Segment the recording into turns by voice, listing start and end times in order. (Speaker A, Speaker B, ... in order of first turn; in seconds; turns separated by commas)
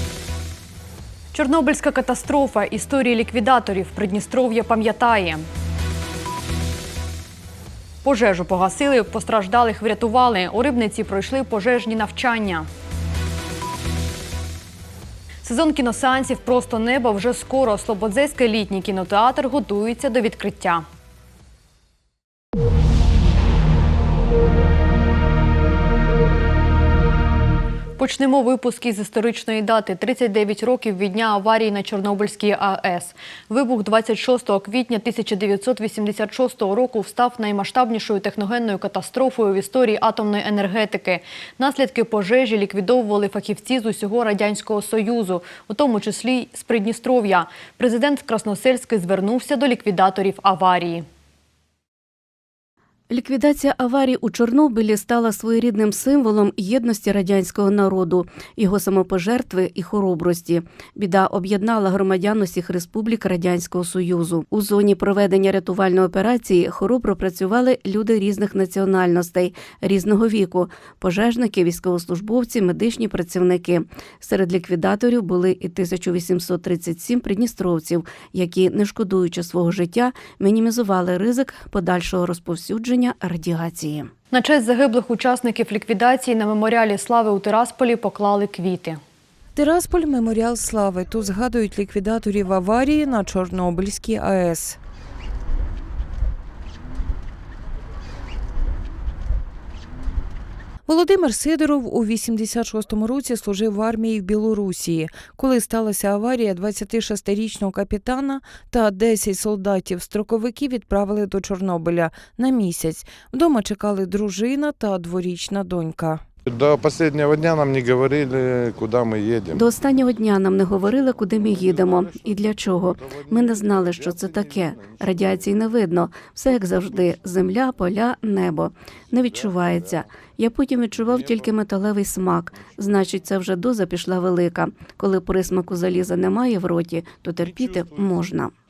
Speaker A: 1.3-5.5, Speaker A: 8.0-12.7, Speaker A: 15.4-20.8, Speaker A: 28.0-51.0, Speaker B: 53.1-84.1, Speaker A: 84.3-89.0, Speaker C: 89.5-94.8, Speaker C: 100.8-116.2, Speaker D: 116.5-119.7, Speaker B: 119.5-138.5, Speaker D: 121.8-122.1, Speaker D: 123.1-124.3